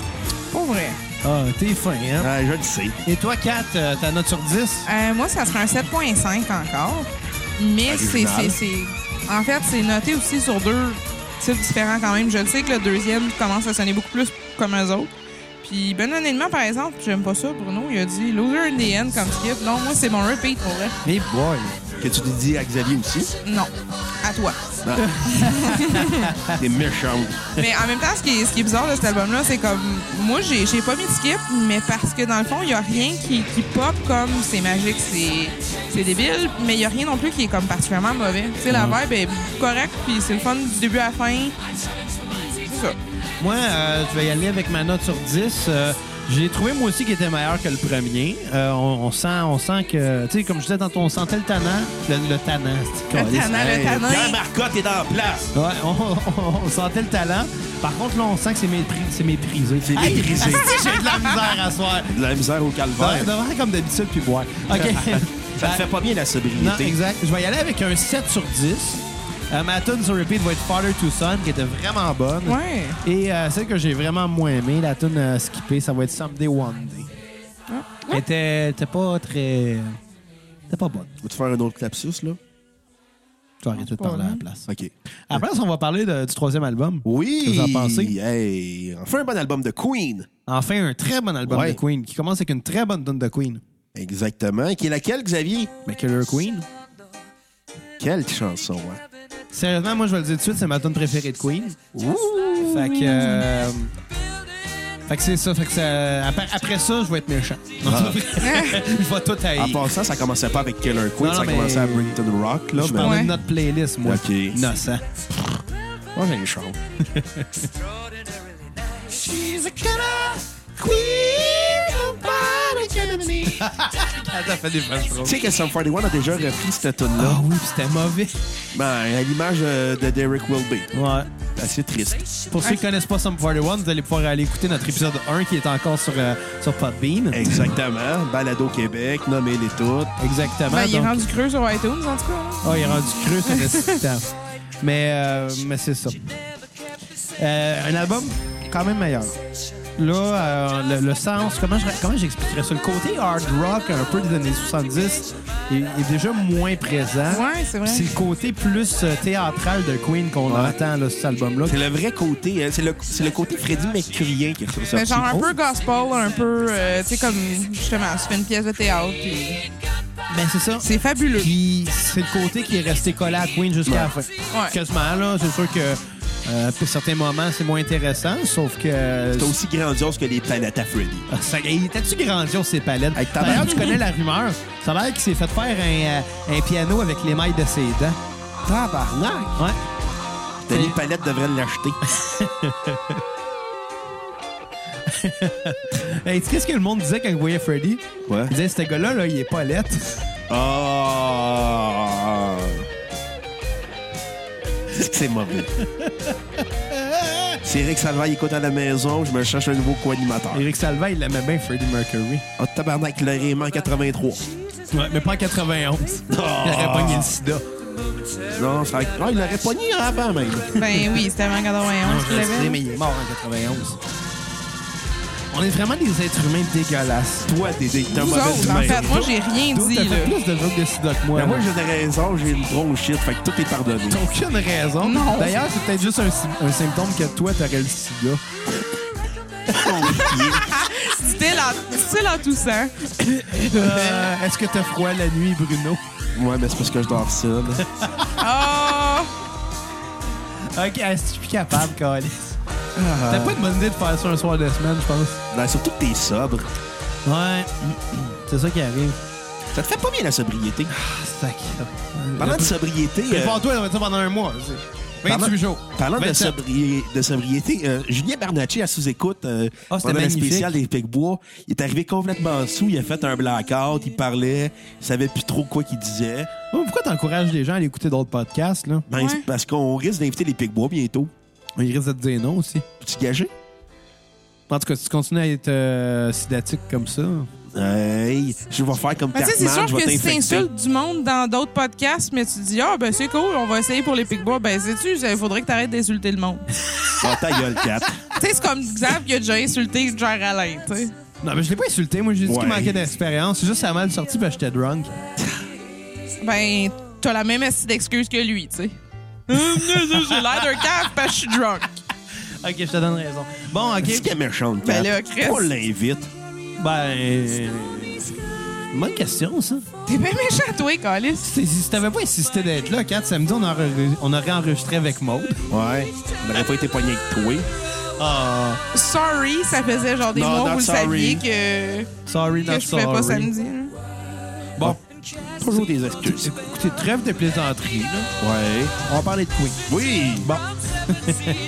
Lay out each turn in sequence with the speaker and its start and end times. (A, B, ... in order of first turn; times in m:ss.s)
0:00.5-0:01.0 A
0:01.2-0:02.3 B
0:02.2-0:03.0 C
0:03.0-0:04.9 B
0:04.8-0:15.1 A
0:07.9-0:08.6 C
0:15.6-0:21.0 A
0:21.0-0:21.8 B
0:22.0-0:23.3 C
0:23.4-0:24.6 A
0:24.8-0:25.1 C
0:25.0-0:26.6 B
0:25.2-0:26.3 A
0:26.5-0:27.4 C
0:27.6-0:41.6 A
0:38.7-0:39.0 B
0:42.5-0:43.0 A
0:43.4-0:53.6 B
0:53.1-0:54.4 A
0:53.5-0:55.5 C
0:55.5-1:02.2 B
0:59.8-1:00.8 C
1:00.4-1:01.3 A
1:02.1-1:03.3 C
1:03.0-1:05.8 B
1:04.7-1:07.0 C
1:06.6-1:17.1 B
1:12.4-1:13.0 A
1:17.7-1:18.2 A
1:18.1-1:20.0 B
1:20.7-1:21.1 B
1:21.2-1:22.4 C
1:23.6-1:24.7 B
1:23.8-1:24.4 A
1:24.7-1:25.4 C
1:25.3-1:28.1 B
1:27.0-1:30.3 C
1:30.5-1:33.6 B
1:31.5-1:31.8 C
1:34.0-1:35.7 C
1:35.9-1:36.7 B
1:38.0-1:39.0 C
1:39.5-1:41.8 B
1:42.0-1:42.9 C
1:42.6-1:43.9 B
1:42.9-1:43.4 A
1:45.1-1:49.9 B
1:47.8-1:48.3 C
1:48.4-1:48.8 A
1:49.6-1:53.3 C
1:51.2-1:52.2 B
1:52.8-1:55.0 B
1:53.0-1:53.4 A
1:54.0-1:54.6 C
1:56.2-1:56.8 C
1:57.0-1:57.7 B
1:59.1-2:05.4 B
2:03.0-2:03.5 C
2:05.2-2:07.4 C
2:07.2-2:08.4 B
2:08.7-2:10.9 C
2:10.9-2:11.3 B
2:11.6-2:12.3 C
2:12.5-2:17.7 B
2:17.3-2:20.2 C
2:20.2-2:21.4 B
2:20.7-2:22.8 A
2:22.6-2:24.3 B
2:23.4-2:24.0 A
2:24.8-2:26.3 B
2:27.4-2:29.4 B
2:30.0-2:41.8 B
2:37.3-2:38.1 A
2:40.5-2:40.8 C
2:41.7-2:45.4 C
2:44.9-2:49.6 A
2:50.3-2:59.6 B
2:50.8-2:51.5 A
2:54.5-2:54.8 A
2:59.4-3:01.3 C
3:01.3-3:08.2 B
3:03.2-3:04.0 C
3:08.7-3:09.6 C
3:10.7-3:12.1 C
3:10.7-3:11.0 B
3:12.1-3:13.2 B
3:15.0-3:20.2 B
3:18.3-3:18.5 C
3:20.5-3:22.9 C
3:24.9-3:25.7 C
3:25.8-3:27.6 B
3:27.6-3:30.6 C
3:30.5-3:32.5 B
3:32.6-3:34.4 C
3:34.9-3:37.7 B
3:36.3-3:37.3 C
3:38.6-3:40.7 C
3:40.7-3:42.8 A
3:40.8-3:41.2 B
3:42.0-3:44.0 B
3:45.5-3:47.5 B
3:47.5-3:49.3 C
3:48.1-3:50.4 A
3:48.6-3:51.7 B
3:51.4-3:54.2 C
3:54.1-3:58.4 B
3:55.0-3:55.6 A
3:59.7-4:00.4 B
3:59.7-4:00.7 C
4:00.5-4:04.2 A
4:03.5-4:06.0 B
4:06.4-4:07.8 C
4:07.8-4:08.4 B
4:08.4-4:09.3 A
4:10.7-4:12.6 B
4:13.0-4:13.6 C
4:13.2-4:15.4 B
4:15.5-4:16.7 C
4:17.2-4:19.2 B
4:19.7-4:20.9 C
4:20.9-4:22.8 B
4:22.4-4:23.6 C
4:23.3-4:26.6 B
4:25.2-4:36.5 C
4:29.9-4:30.8 B
4:36.7-4:39.1 B
4:39.1-4:41.3 C
4:39.2-4:39.4 A
4:41.8-4:42.8 B
4:43.0-4:43.5 C
4:44.7-4:47.5 B
4:47.7-4:50.7 C
4:49.3-4:56.7 A
4:57.2-4:58.2 C
4:58.4-5:01.1 A
5:01.4-5:05.1 B
5:02.5-5:03.0 C
5:06.4-5:11.9 A
5:09.5-5:11.3 B
5:12.6-5:14.3 B
5:14.0-5:16.3 C
5:14.8-5:15.7 A
5:16.8-5:18.3 B
5:18.9-5:19.9 B
5:20.1-5:21.5 A
5:21.4-5:25.6 B
5:25.7-5:27.7 C
5:28.2-5:28.8 B
5:28.9-5:32.1 A
5:30.3-5:31.4 C
5:32.3-5:33.5 B
5:32.6-5:34.0 A
5:35.6-5:36.5 C
5:36.2-5:38.3 B
5:38.4-5:39.0 C
5:39.0-5:39.8 B
5:39.9-5:40.5 C
5:40.4-5:41.6 B